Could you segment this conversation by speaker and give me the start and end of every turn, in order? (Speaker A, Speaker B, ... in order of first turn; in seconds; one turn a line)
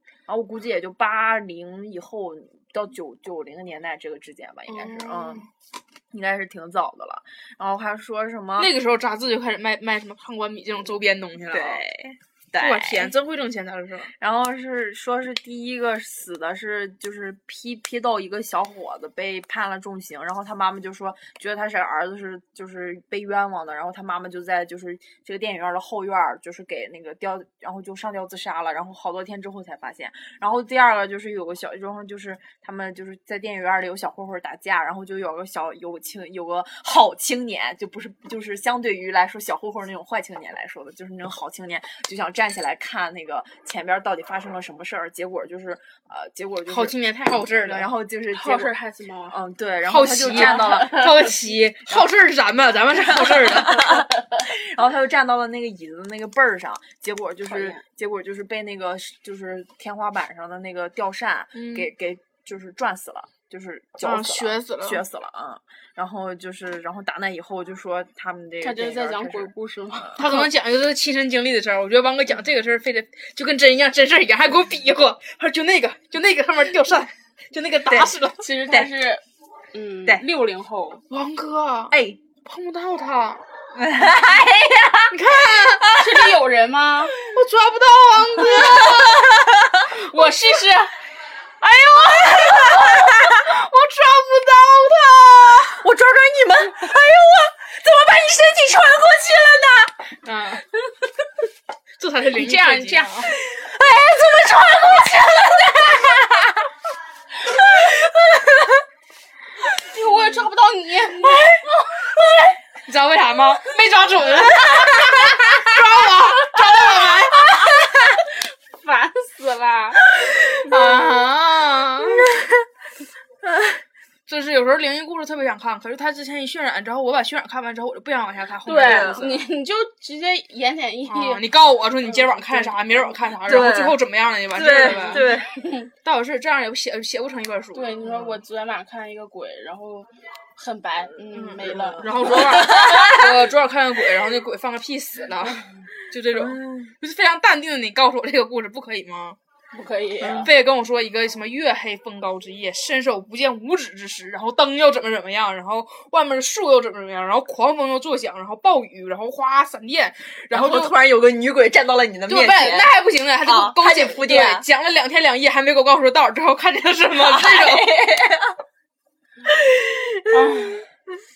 Speaker A: 0.3-5.5
Speaker B: 4.7-5.5
Speaker A: 6.1-8.7
Speaker B: 8.6-11.8
Speaker A: 11.5-13.1
Speaker B: 12.6-14.1
Speaker A: 14.2-46.9
Speaker B: 46.7-47.9
Speaker A: 47.6-48.8
Speaker C: 48.3-49.4
Speaker A: 49.3-51.0
Speaker B: 49.9-53.9
Speaker C: 50.3-51.3
Speaker A: 52.9-70.2
Speaker C: 57.5-57.8
Speaker B: 61.5-61.9
Speaker B: 64.0-65.0
Speaker C: 68.6-70.5
Speaker B: 70.2-78.5
Speaker A: 77.9-78.2
Speaker C: 78.4-81.0
Speaker B: 81.1-83.4
Speaker A: 81.9-82.2
Speaker A: 83.7-86.0
Speaker B: 85.1-86.0
Speaker C: 86.0-87.2
Speaker B: 87.3-89.4
Speaker A: 88.5-89.8
Speaker C: 89.8-91.0
Speaker B: 91.6-95.8
Speaker A: 91.9-93.4
Speaker A: 95.8-100.2
Speaker B: 100.2-100.7
Speaker B: 102.0-103.3
Speaker C: 102.3-103.3
Speaker A: 103.3-106.6
Speaker A: 107.5-108.6
Speaker C: 109.8-111.9
Speaker B: 112.8-117.6
Speaker A: 114.6-115.6
Speaker C: 117.6-120.1
Speaker B: 120.7-122.4
Speaker C: 120.7-121.2
Speaker A: 122.2-122.5
Speaker A: 123.4-123.8
Speaker B: 124.3-129.5
Speaker C: 128.7-131.4
Speaker A: 128.8-129.3
Speaker B: 131.1-135.3
Speaker C: 132.0-133.3
Speaker A: 133.4-135.6
Speaker C: 134.8-135.9
Speaker B: 136.0-137.9
Speaker C: 137.7-142.8
Speaker A: 138.0-138.4
Speaker B: 141.3-149.4
Speaker A: 141.6-143.4
Speaker A: 146.3-146.9
Speaker C: 149.7-150.5
Speaker A: 150.2-150.5
Speaker B: 150.4-160.9
Speaker A: 160.5-164.7
Speaker B: 162.3-168.0
Speaker A: 167.1-168.6
Speaker A: 169.4-170.8
Speaker C: 170.3-170.8